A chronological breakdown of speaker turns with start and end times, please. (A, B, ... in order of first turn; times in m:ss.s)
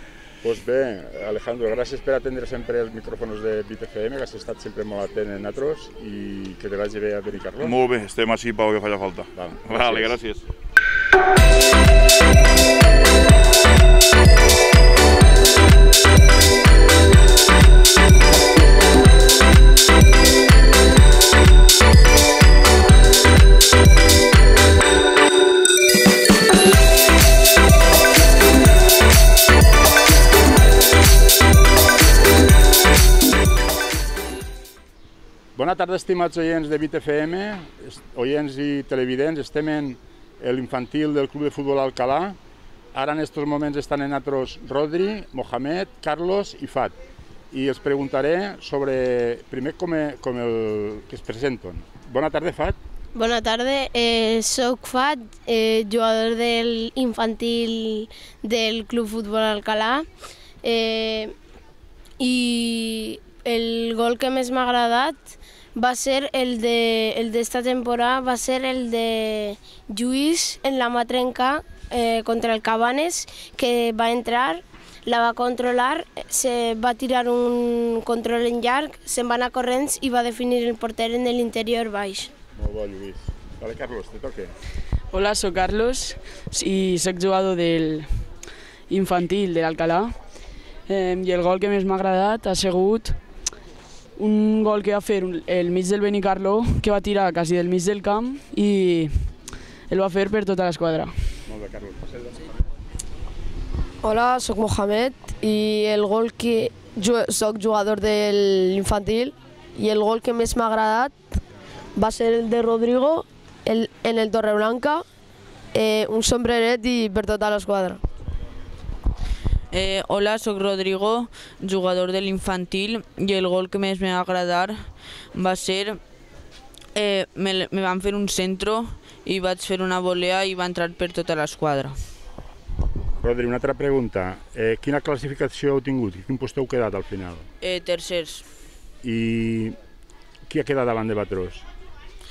0:00.4-0:07.7 A
0:07.6-0:10.4 B
0:09.3-0:10.2 A
0:35.5-0:42.4 A
0:42.9-0:47.0 A
0:47.5-0:52.8 A
0:53.1-1:00.1 C
1:00.6-1:01.3 C
1:02.2-1:22.3 C
1:22.5-1:24.5 A
1:25.1-1:30.2 D
1:30.9-1:33.2 D
1:34.2-1:39.4 D
1:39.9-1:41.4 D
1:41.4-1:42.6 A
1:44.0-1:51.2 E
1:52.0-1:55.0 E
1:55.7-1:58.0 E
1:59.7-2:06.0 F
2:06.9-2:12.0 F
2:13.2-2:17.5 A
2:17.6-2:18.4 F
2:19.0-2:19.8 A
2:20.5-2:21.6 A